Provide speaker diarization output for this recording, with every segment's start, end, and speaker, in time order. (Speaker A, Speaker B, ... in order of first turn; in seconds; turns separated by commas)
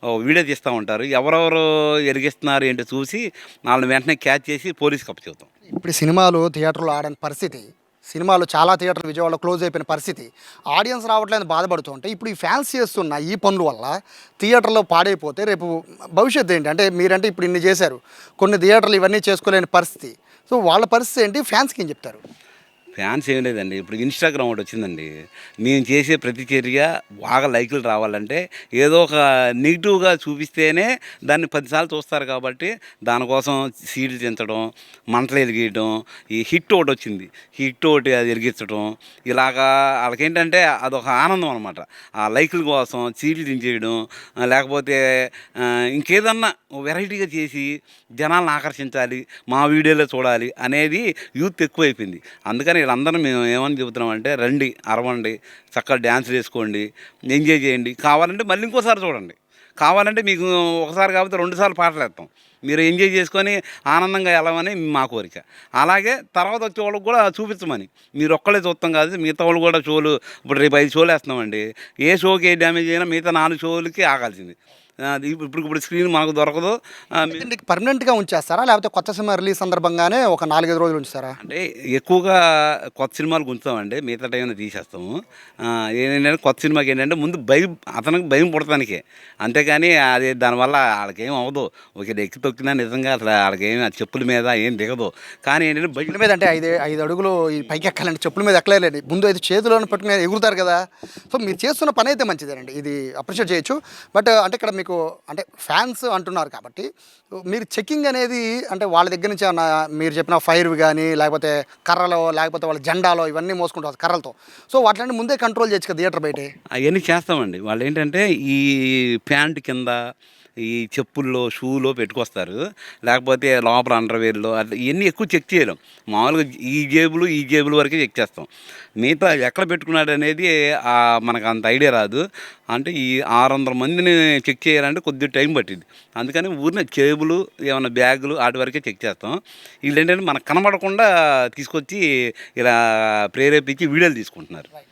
Speaker A: 0.2-5.5, Speaker B: 5.7-22.2, Speaker A: 23.0-25.1, Speaker A: 25.6-45.0, Speaker A: 45.6-47.7, Speaker A: 48.2-74.6, Speaker A: 75.1-77.5, Speaker B: 77.3-81.4, Speaker A: 81.4-82.4, Speaker A: 83.0-96.2, Speaker B: 96.1-106.9, Speaker B: 107.5-116.5, Speaker A: 116.9-120.0, Speaker A: 120.7-128.5, Speaker A: 129.0-142.0, Speaker A: 142.6-144.7